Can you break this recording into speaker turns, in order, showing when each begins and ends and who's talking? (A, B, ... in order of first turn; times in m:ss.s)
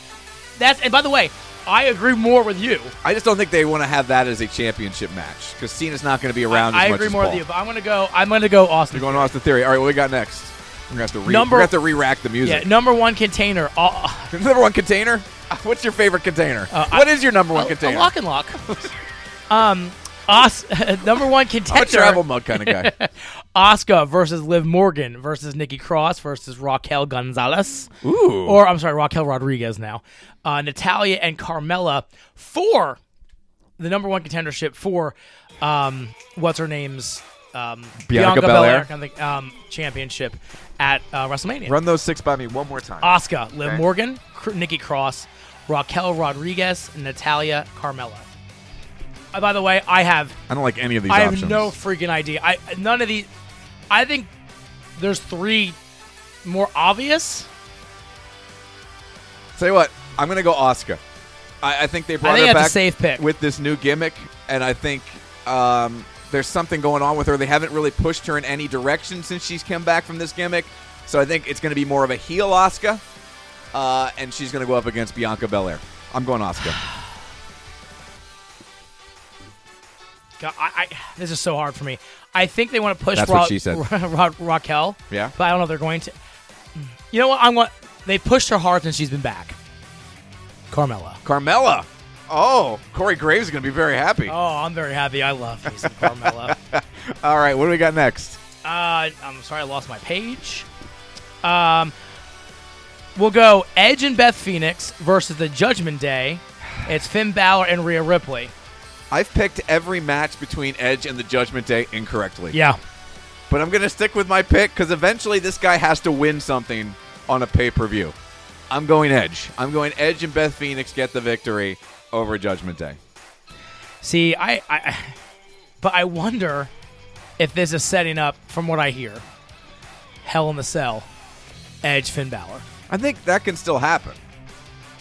0:00.6-0:02.9 A
0:03.0-0:07.4 B
0:06.5-0:09.3 A
0:08.9-0:12.7 B
0:11.2-0:11.7 A
0:12.4-0:14.3 A
0:14.3-0:18.1 B
0:16.7-0:18.6 A
0:19.5-0:27.9 A
0:21.7-0:22.9 B
0:28.0-0:28.6 B
0:28.4-0:33.0 A
0:33.8-0:41.7 A
0:38.0-0:38.9 B
0:41.6-0:43.1 B
0:43.0-0:48.2 A
0:49.3-0:50.4 A
0:50.5-0:51.7 B
0:51.1-0:53.3 A
0:53.9-0:54.3 A
0:55.0-0:55.8 A
0:56.4-0:57.5 A
0:59.6-1:01.0 B
1:01.6-1:13.0 B
1:02.2-1:03.2 A
1:13.7-1:16.8 B
1:20.4-1:26.1 A
1:23.1-1:23.8 B
1:26.8-1:29.6 A
1:30.7-1:31.2 A
1:31.2-1:34.3 B
1:34.3-1:36.5 A
1:35.9-1:38.4 B
1:38.6-1:40.7 A
1:41.4-1:41.9 A
1:43.2-1:48.5 A
1:49.1-1:52.6 B
1:52.5-1:52.8 A
1:53.5-1:58.1 B
1:58.7-2:03.0 B
2:04.0-2:05.1 A
2:05.8-2:06.7 A
2:07.4-2:09.2 A
2:10.2-2:11.1 A
2:11.8-2:12.6 A
2:12.9-2:14.2 B